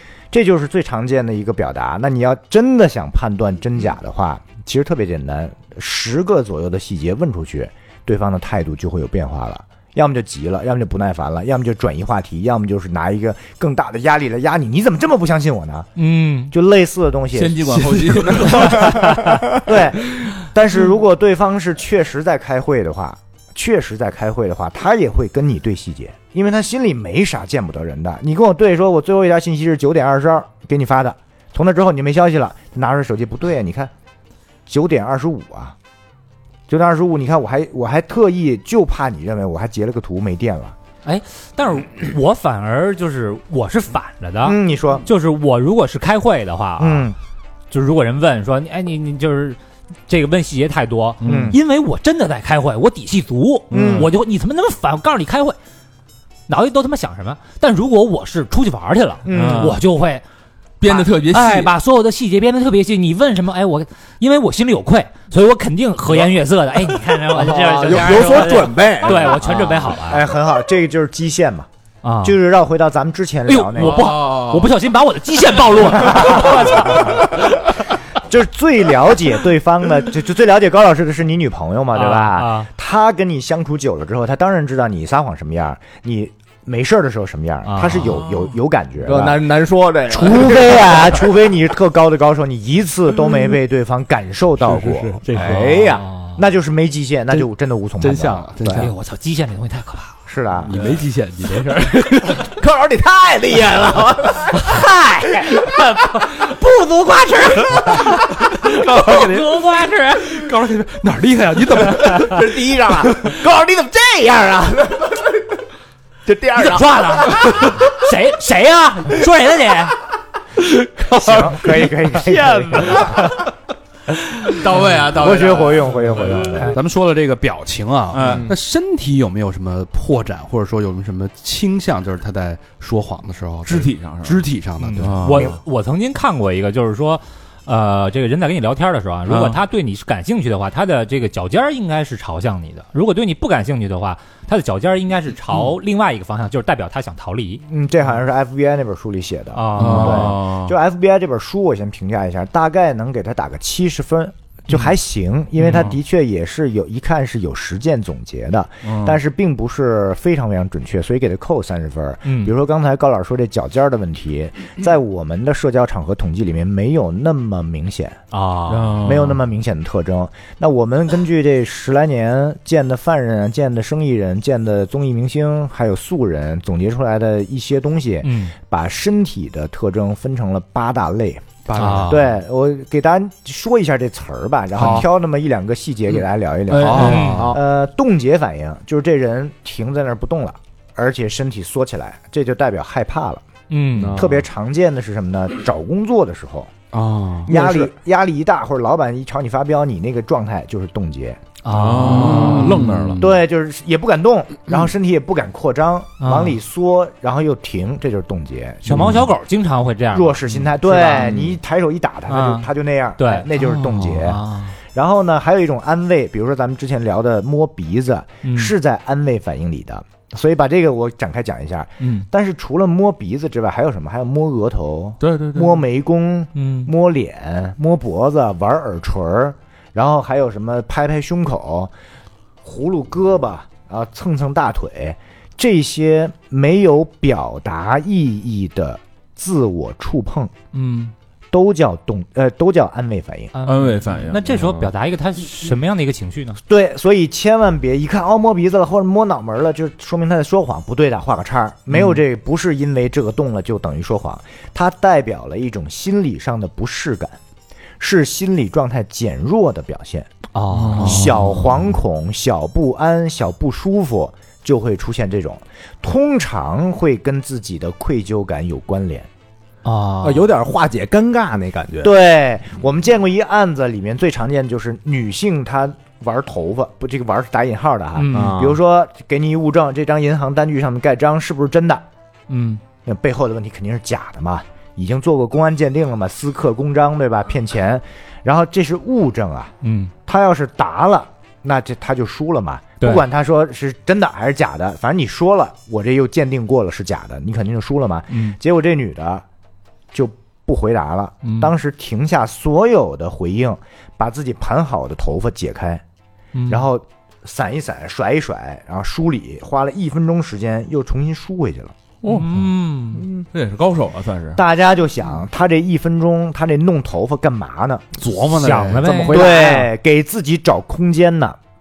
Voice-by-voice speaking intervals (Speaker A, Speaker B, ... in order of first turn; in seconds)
Speaker A: 0.3-15.9, 16.5-17.8, 18.9-33.9, 34.7-35.7, 36.7-40.8, 44.4-45.1, 46.8-47.1, 51.2-51.6, 53.7-54.1, 59.2-59.8, 70.0-71.7, 72.2-74.1, 76.0-77.2, 78.2-89.5, 90.1-95.7, 96.3-98.9, 100.2-100.7, 121.1-123.3, 125.1-126.8, 147.7-168.2, 169.0-181.4, 182.1-193.4, 194.1-196.7, 197.4-201.4, 203.2-209.3, 210.1-214.4, 214.9-231.9, 232.6-240.5, 241.5-243.5, 246.7-257.4, 258.0-260.3, 260.9-269.3, 272.0-282.0, 283.0-289.7, 290.2-299.4, 300.1-306.0, 306.7-311.9, 314.5-318.0, 319.3-321.6
Speaker B: 16.0-16.5, 41.0-47.1, 47.7-55.6, 56.5-60.2, 60.9-70.2, 72.0-72.4, 73.5-77.6, 81.9-82.7, 87.7-88.3, 95.4-96.3, 98.7-100.2, 104.5-110.4, 113.2-114.0, 116.5-120.0, 122.9-123.2, 135.0-147.6, 149.5-150.4, 155.6-155.9, 162.2-162.5, 168.3-169.0, 178.2-178.5, 181.8-182.2, 186.9-187.5, 193.7-194.3, 201.6-202.8, 206.2-206.6, 208.8-211.6, 212.3-212.7, 213.2-214.8, 218.4-218.7, 222.0-222.2, 226.5-226.9, 240.7-241.1, 243.5-246.6, 251.9-252.2, 260.5-261.4, 269.8-270.5, 278.1-278.6, 282.5-282.8, 289.8-290.1, 298.3-298.6, 301.4-301.7, 306.5-306.9, 312.2-313.3, 318.5-319.9
Speaker C: 17.3-18.9, 51.2-51.5, 53.7-54.1, 59.3-59.8, 60.8-61.7, 73.8-74.7, 122.3-123.2, 124.5-126.7, 128.1-128.5, 133.6-134.4, 135.0-135.5, 139.3-139.6, 149.8-150.7, 158.8-159.2, 168.7-169.4, 201.7-203.2, 225.2-225.7, 243.6-244.5, 260.7-261.3, 312.2-312.7, 313.5-314.6
Speaker D: 17.7-19.1, 94.6-95.9, 98.0-98.9, 100.6-102.5, 108.7-109.5, 110.2-112.5, 126.7-135.5, 181.7-182.3, 184.7-185.1, 186.7-187.5, 196.9-197.5, 202.0-203.4, 318.2-319.0
Speaker E: 67.3-69.6, 89.0-91.0, 95.3-96.1, 102.4-104.6, 112.2-115.2, 116.2-117.4, 128.2-128.5, 186.7-187.6, 193.9-194.3, 197.4-197.9, 244.6-244.9, 270.2-272.1, 278.3-278.8, 318.4-319.9